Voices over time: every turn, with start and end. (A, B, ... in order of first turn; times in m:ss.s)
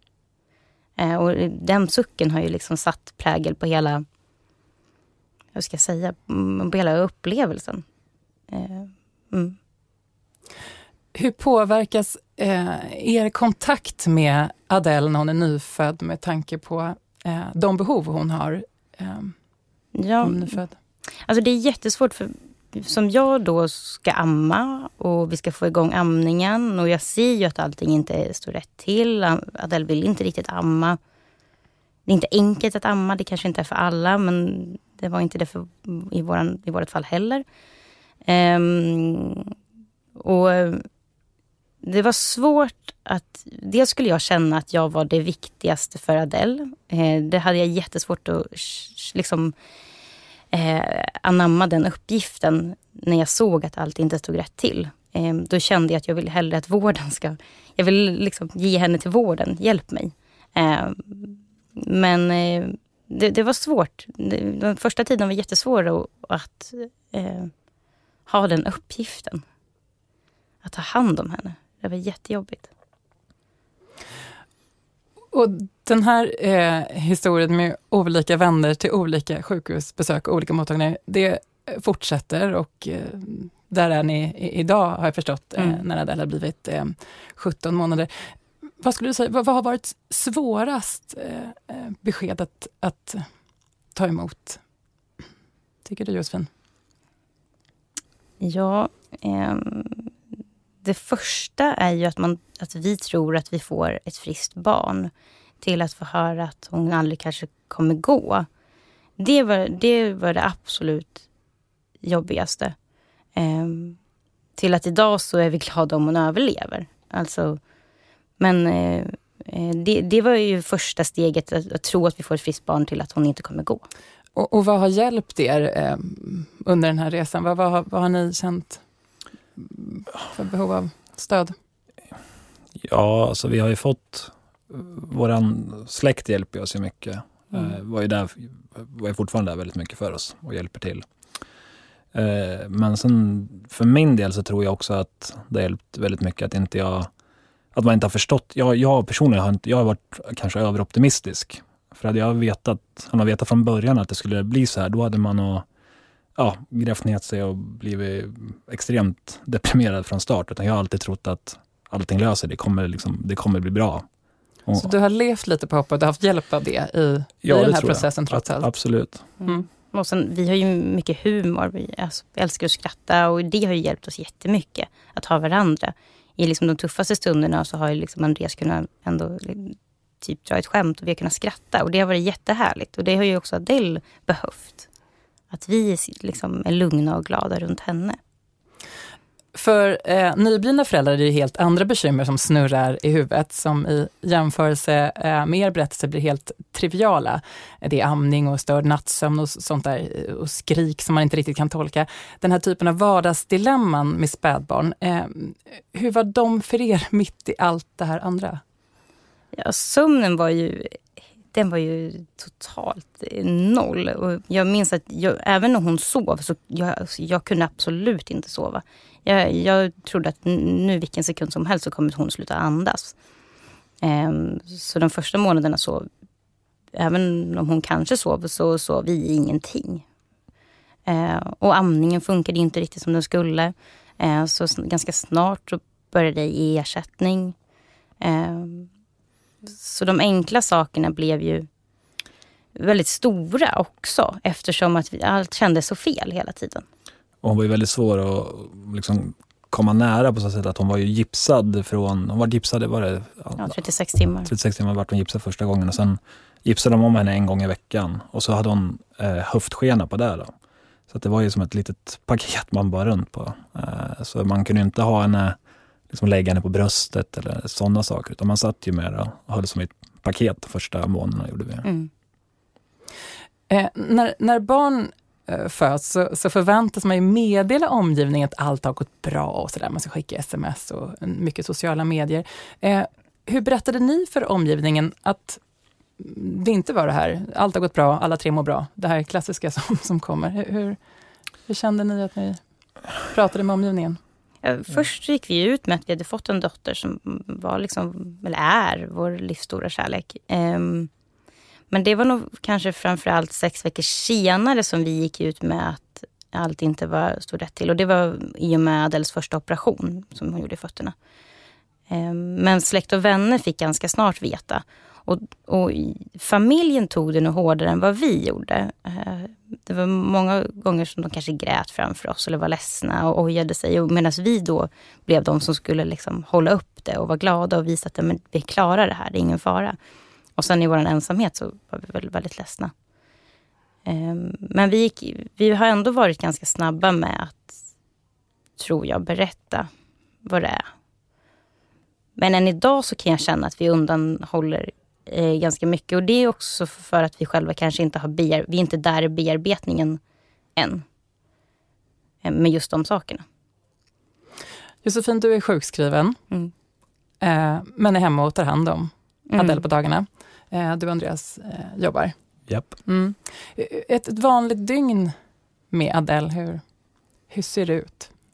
0:01.0-0:04.0 A
0:05.5-0:07.8 A
0:08.5-0:09.6 A
0:11.1-0:19.4 B
0:19.9-0:20.6 A
0:20.2-0:20.8 B
0:21.2-0:31.0 A
0:32.1-0:37.4 A
0:38.2-0:39.6 A
0:40.2-0:40.9 A
0:41.8-0:49.5 A
0:50.5-1:07.5 A
1:08.3-1:09.4 A
1:10.6-1:12.7 A
1:15.3-1:33.3 B
1:25.6-1:25.8 A
1:33.9-1:34.6 B
1:35.8-1:36.5 B
1:38.4-1:40.1 A
1:40.8-1:48.5 A
1:49.2-1:51.2 A
1:52.0-1:52.8 A
1:53.4-1:54.0 A
1:54.6-1:57.6 A
1:58.4-2:03.9 A
2:04.4-2:08.8 B
2:09.6-2:11.6 B
2:12.8-2:21.1 C
2:22.1-2:27.1 C
2:27.7-2:35.7 C
2:36.4-2:44.1 C
2:44.8-2:48.7 B
2:47.4-2:49.3 C
2:49.4-3:04.9 A
3:05.5-3:08.2 A
3:09.5-3:28.6 B
3:29.5-3:31.0 A
3:31.5-3:43.2 A
3:44.0-3:46.1 A
3:47.0-3:50.0 A
3:51.1-3:57.6 A
3:58.2-3:58.9 A
3:59.6-4:01.7 A
4:02.8-4:06.8 A
4:07.4-4:13.8 C
4:13.6-4:14.5 A
4:14.4-4:20.5 C
4:21.1-4:25.6 C
4:26.1-4:31.9 C
4:31.8-4:32.1 A
4:33.7-4:45.6 B
4:46.2-4:51.0 B
4:51.7-4:52.6 B
4:53.2-4:54.2 B
4:54.6-5:01.1 A
5:01.9-5:11.1 A
5:12.1-5:30.0 A
5:30.6-5:32.9 A
5:34.1-5:37.8 A
5:38.8-5:39.9 A
5:40.4-5:40.9 A
5:42.4-5:50.2 A
5:50.8-5:51.0 A
5:52.4-5:53.4 A
5:55.0-5:56.4 B
5:57.4-6:02.4 B
5:59.5-5:59.8 A
6:02.7-6:03.0 C
6:03.1-6:05.3 B
6:05.9-6:06.8 B
6:07.5-6:08.3 B